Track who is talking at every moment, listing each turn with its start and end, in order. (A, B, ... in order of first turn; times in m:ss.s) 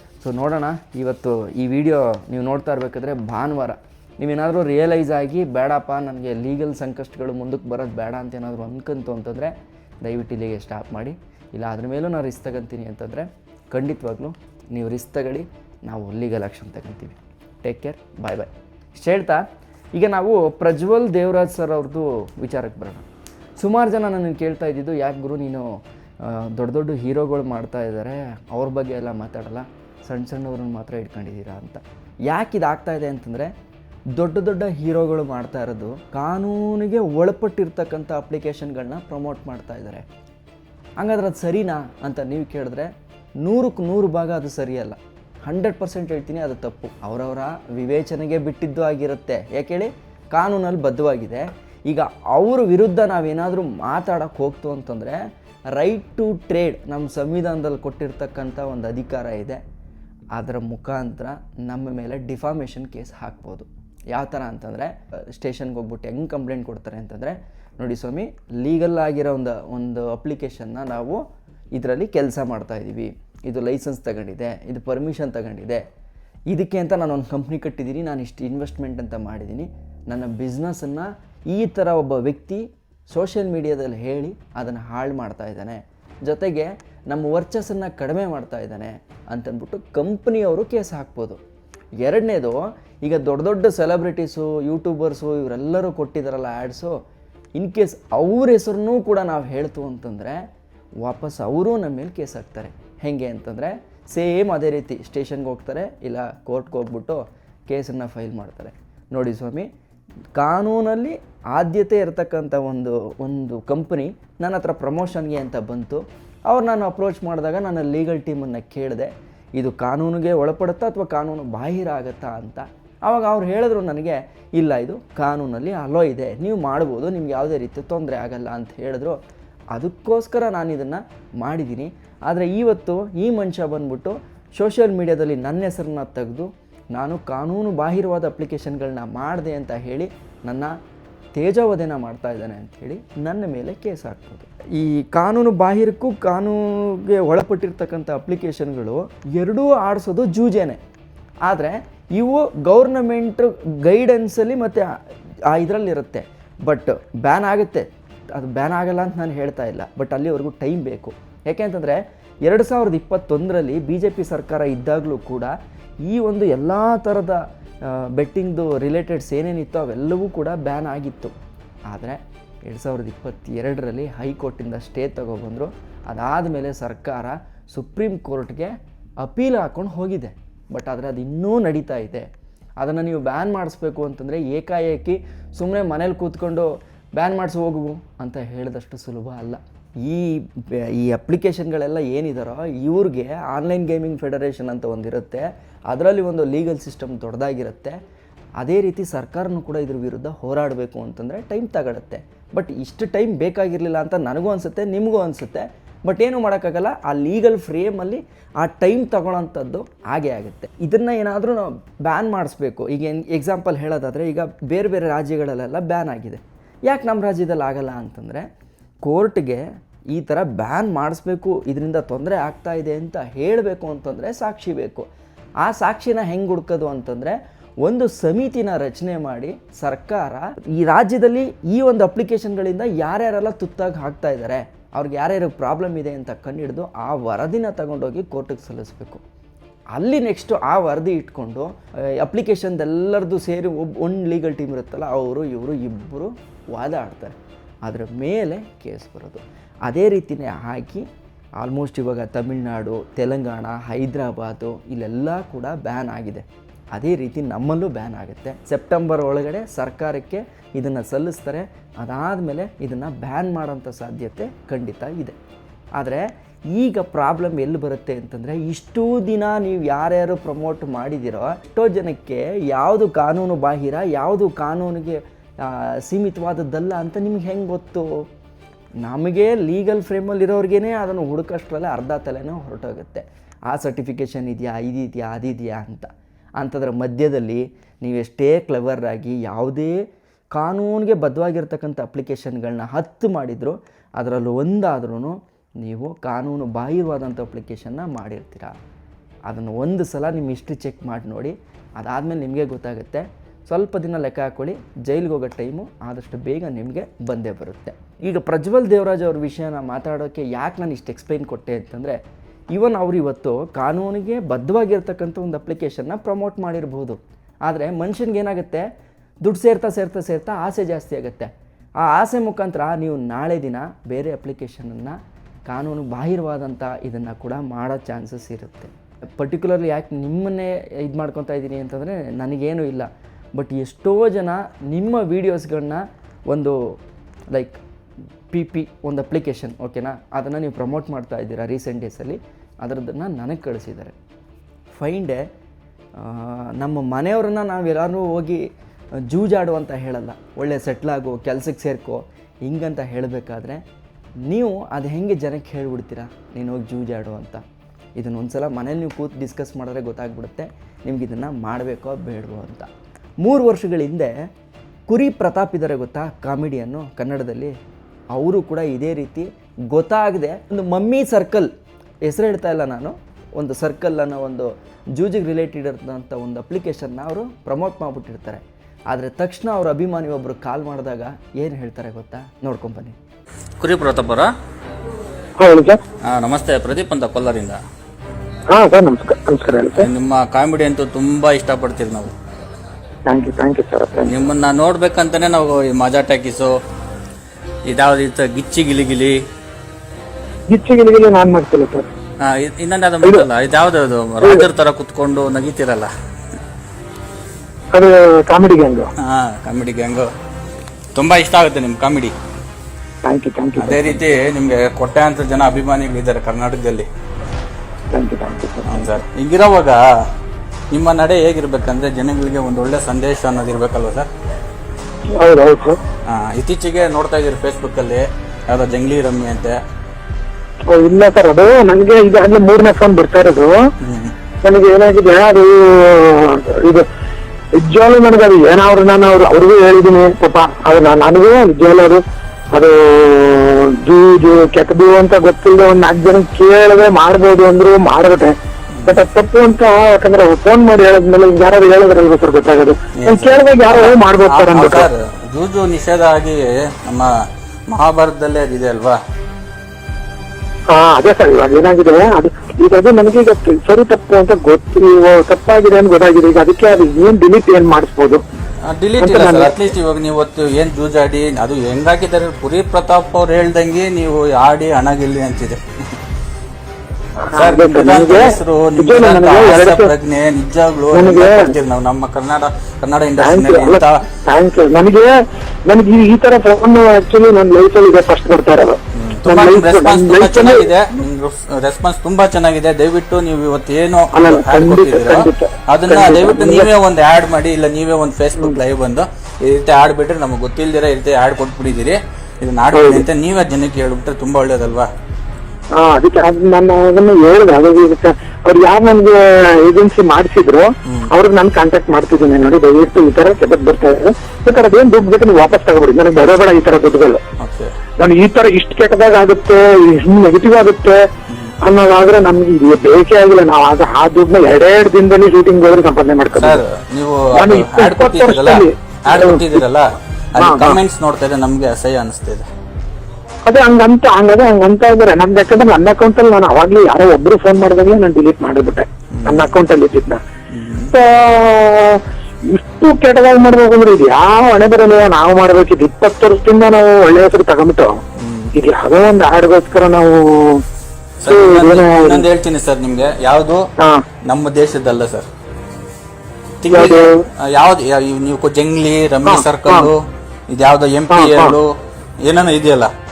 0:00.2-0:19.4 A
0:20.0-0:23.1 A
0:23.6-0:25.7 A
0:26.2-0:33.5 A
0:34.2-0:40.0 A
0:41.0-0:42.9 A
0:43.4-0:55.2 A
0:55.8-0:59.6 A
1:00.4-1:11.2 A
1:11.8-1:15.8 A
1:16.5-1:31.4 A
1:32.0-1:37.0 A
1:37.6-1:40.4 A
1:41.0-1:49.7 A
1:50.4-2:09.2 A
2:09.7-2:20.7 A
2:21.4-2:30.8 A
2:31.5-2:34.9 A
2:35.5-2:45.5 A
2:46.1-2:51.3 A
2:51.9-3:02.3 A
3:02.8-3:18.0 A
3:18.6-3:38.5 A
3:39.0-3:45.1 A
3:45.6-3:59.2 A
3:59.9-4:11.1 A
4:11.6-4:25.4 A
4:26.0-4:38.2 A
4:39.0-4:50.0 A
4:50.6-4:58.7 A
4:59.5-5:12.2 A
5:12.7-5:18.9 A
5:19.4-5:37.0 A
5:37.5-5:37.8 A
5:38.5-5:44.2 A
5:44.9-5:45.5 A
5:46.2-5:48.7 A
5:49.2-5:53.8 A
5:54.5-5:57.6 A
5:58.2-6:02.9 A
6:03.4-6:04.5 A
6:05.1-6:07.7 A
6:08.3-6:11.7 A
6:12.2-6:23.2 A
6:23.8-6:24.5 B
6:25.6-6:26.0 C
6:26.2-6:27.8 B
6:28.7-6:30.1 C
6:30.0-6:32.3 B
6:33.3-6:34.3 C
6:34.2-6:36.8 B
6:37.9-6:39.4 B
6:40.7-6:42.1 C
6:42.4-6:46.1 B
6:47.9-6:49.1 C
6:49.2-6:50.3 B
6:51.2-6:52.3 B
6:53.2-6:54.2 C
6:53.8-6:57.1 B
6:58.1-6:59.2 C
6:58.9-7:00.0 B
7:00.9-7:04.3 B
7:05.3-7:06.0 C
7:06.2-7:09.8 B
7:10.9-7:13.9 C
7:14.0-7:14.4 B
7:14.6-7:17.1 C
7:17.8-7:35.1 C
7:29.0-7:29.2 B
7:33.2-7:37.3 B
7:37.9-7:39.2 B
7:40.9-7:48.4 C
7:48.8-7:55.8 B
7:49.2-7:49.8 C
7:57.4-8:00.1 C
7:57.6-8:04.2 B
8:01.1-8:01.7 C
8:03.4-8:10.9 C
8:09.2-8:25.1 B
8:14.4-8:16.9 C
8:22.9-8:23.2 C
8:26.0-8:37.4 C
8:37.6-8:37.9 B
8:38.2-8:41.2 C
8:41.5-8:41.8 B
8:41.8-8:46.8 C
8:46.6-8:52.7 B
8:47.5-8:49.8 C
8:50.6-8:51.0 C
8:53.7-9:00.4 C
8:59.3-8:59.8 B
9:00.7-9:01.1 B
9:01.1-9:08.2 C
9:08.4-9:08.7 B
9:08.8-9:10.8 C
9:11.4-9:13.9 B
9:11.5-9:12.4 C
9:14.0-9:14.3 C
9:14.5-9:15.5 B
9:16.8-9:21.9 B
9:16.9-9:17.5 C
9:19.5-9:20.1 C
9:21.3-9:21.8 C
9:22.4-9:23.1 B